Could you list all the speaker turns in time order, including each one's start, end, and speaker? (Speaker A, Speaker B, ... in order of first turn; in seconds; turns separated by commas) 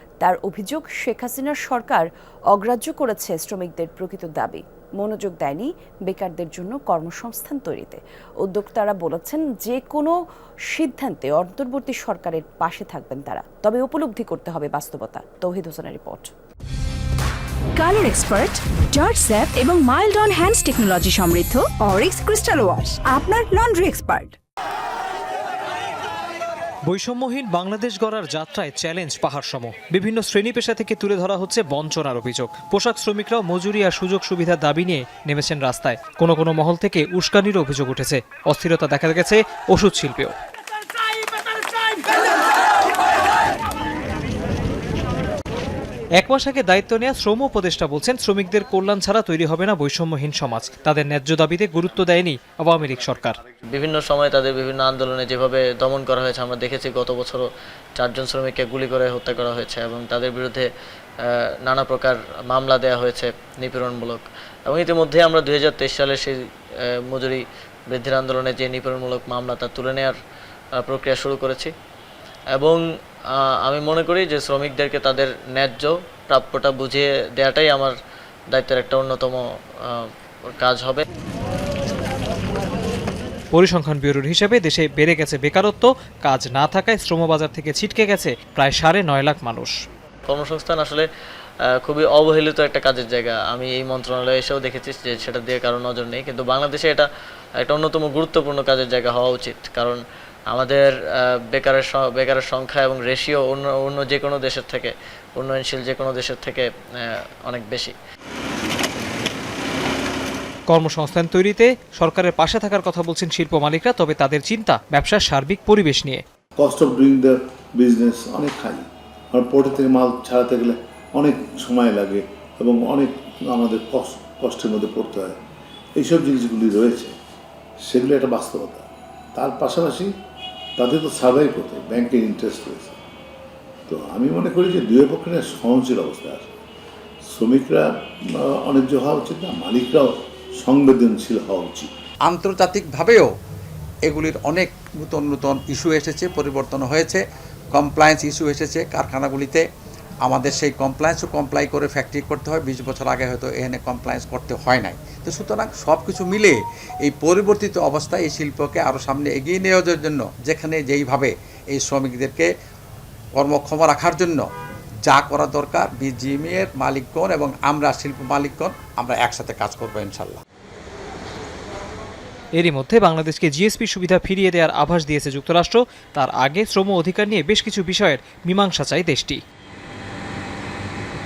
Speaker A: 0.2-10.2, Speaker A: 10.7-16.3, Speaker B: 17.8-24.4, Speaker C: 26.9-40.4, Speaker C: 46.2-53.4, Speaker D: 53.7-60.7, Speaker D: 61.2-66.4, Speaker D: 67.1-70.2, Speaker D: 70.8-71.7, Speaker D: 72.5-78.0, Speaker D: 78.5-81.0, Speaker C: 83.5-89.8, Speaker D: 90.3-91.1, Speaker D: 91.8-97.1, Speaker D: 97.6-100.0, Speaker D: 100.5-108.0, Speaker C: 110.7-116.2, Speaker E: 116.6-125.4, Speaker E: 126.0-127.1, Speaker E: 127.8-130.1, Speaker E: 130.8-133.0, Speaker E: 133.9-136.5, Speaker E: 137.3-141.9, Speaker F: 142.3-143.3, Speaker F: 144.1-147.2, Speaker F: 147.8-149.6, Speaker F: 150.2-162.5, Speaker F: 163.3-164.4, Speaker F: 165.1-170.4, Speaker C: 172.6-179.4